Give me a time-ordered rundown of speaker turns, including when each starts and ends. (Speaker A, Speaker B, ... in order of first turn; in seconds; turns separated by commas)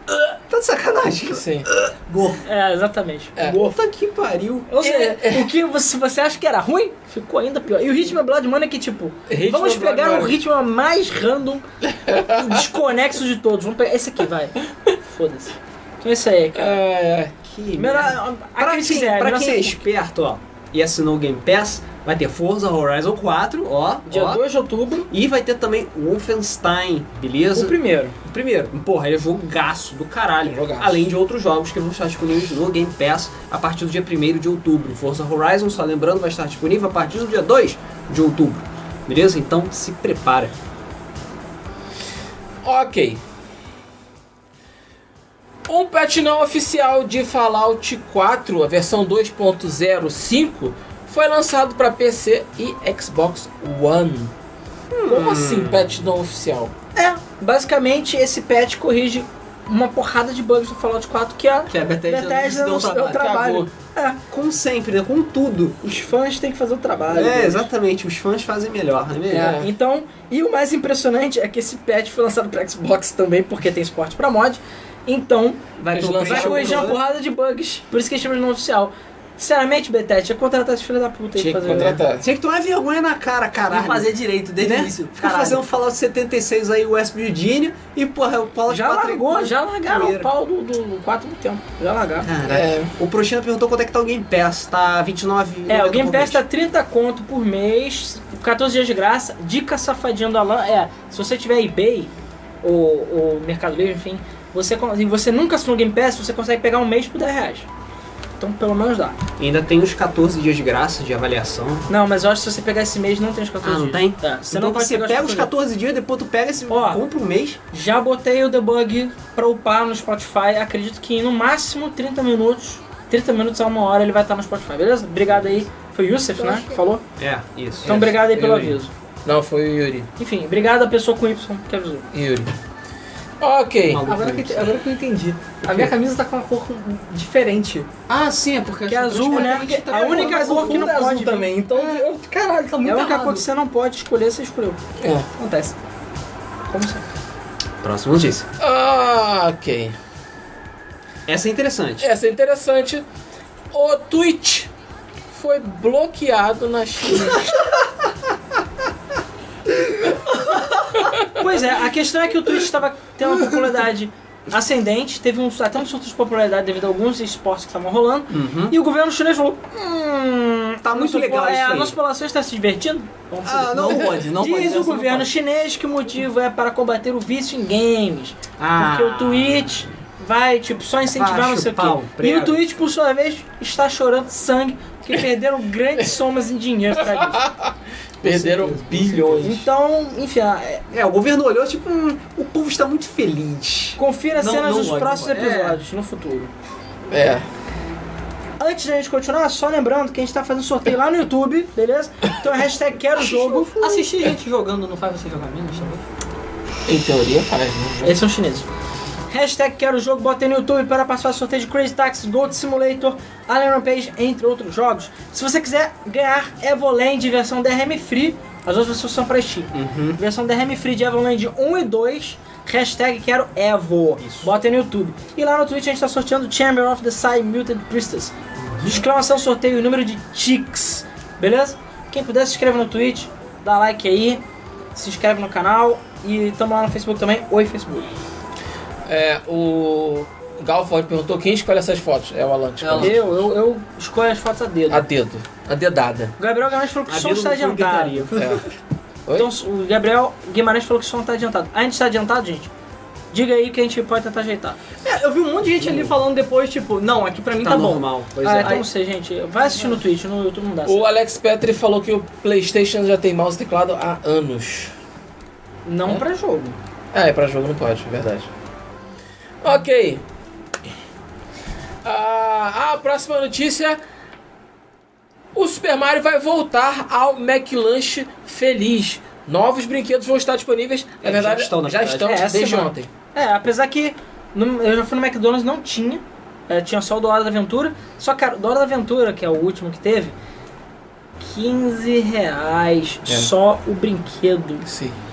Speaker A: 0.5-2.4, Speaker B: 1.3-1.7, Speaker C: 2.4-3.8, Speaker A: 3.5-4.7, Speaker C: 4.7-11.6, Speaker B: 4.8-5.5, Speaker B: 9.3-10.4, Speaker B: 11.9-12.6, Speaker C: 12.2-14.6, Speaker C: 15.1-16.8, Speaker B: 16.5-17.3, Speaker A: 17.4-24.4, Speaker C: 17.8-19.9, Speaker C: 24.1-25.1, Speaker A: 25.1-40.5, Speaker C: 27.5-28.2, Speaker B: 30.5-31.1, Speaker B: 42.6-43.2, Speaker B: 45.7-54.3, Speaker A: 54.9-55.9, Speaker B: 55.1-56.7, Speaker C: 57.0-64.2, Speaker D: 61.7-63.2, Speaker B: 63.2-63.7, Speaker A: 64.3-65.8, Speaker C: 65.8-67.7, Speaker A: 67.1-69.6, Speaker C: 69.3-82.0, Speaker B: 69.3-69.7, Speaker A: 75.8-77.0, Speaker B: 75.9-76.9, Speaker B: 81.4-82.2, Speaker A: 81.7-90.3, Speaker D: 83.7-85.6, Speaker C: 88.7-92.3, Speaker A: 92.2-96.4, Speaker B: 92.5-92.9, Speaker C: 95.7-107.7, Speaker C: 108.4-109.2, Speaker A: 109.4-111.9, Speaker C: 111.9-115.5, Speaker A: 113.6-117.6, Speaker C: 116.7-117.0, Speaker C: 117.7-127.0, Speaker A: 127.2-128.0, Speaker C: 127.8-128.9, Speaker B: 127.8-130.1, Speaker C: 130.2-132.1, Speaker B: 132.1-132.5, Speaker B: 133.4-134.1, Speaker A: 133.9-134.8, Speaker D: 134.1-138.1, Speaker A: 138.1-140.8, Speaker C: 138.9-141.6, Speaker D: 139.1-143.4, Speaker C: 142.8-144.8, Speaker B: 145.0-145.3, Speaker D: 145.4-145.8, Speaker C: 146.7-147.0, Speaker A: 147.8-148.5, Speaker B: 148.6-149.9, Speaker A: 151.3-152.1, Speaker B: 152.0-153.1, Speaker B: 153.7-154.7, Speaker B: 155.3-157.7, Speaker B: 161.0-161.3, Speaker C: 161.3-187.4, Speaker A: 168.3-168.8, Speaker A: 170.8-171.9, Speaker A: 173.4-174.2, Speaker D: 173.7-175.3, Speaker A: 178.6-179.7, Speaker A: 181.1-182.6, Speaker B: 187.0-189.7, Speaker A: 188.2-189.5, Speaker C: 189.4-190.8, Speaker A: 190.9-194.0, Speaker C: 194.0-196.5, Speaker D: 194.4-195.8, Speaker B: 197.1-197.5, Speaker C: 198.6-204.1, Speaker D: 203.2-206.0, Speaker B: 206.9-208.2, Speaker C: 208.0-208.7, Speaker C: 209.3-234.4, Speaker A: 219.7-220.2, Speaker A: 224.2-224.5, Speaker A: 228.7-229.0, Speaker C: 234.9-238.1, Speaker B: 239.1-243.2, Speaker D: 242.8-243.2, Speaker C: 243.0-245.1, Speaker B: 244.9-246.3, Speaker C: 246.4-248.3, Speaker A: 247.1-248.6, Speaker B: 248.3-248.6, Speaker C: 249.3-252.7, Speaker C: 253.3-254.8, Speaker D: 255.0-258.1, Speaker A: 255.8-256.1, Speaker A: 257.6-258.9, Speaker C: 258.4-261.1, Speaker B: 260.9-264.9, Speaker C: 265.9-266.8, Speaker B: 267.1-268.5, Speaker B: 269.6-270.2, Speaker B: 272.0-274.0, Speaker B: 275.5-283.1, Speaker A: 281.2-282.4, Speaker C: 282.2-290.4, Speaker C: 291.4-294.9, Speaker B: 293.3-293.5, Speaker B: 294.9-295.2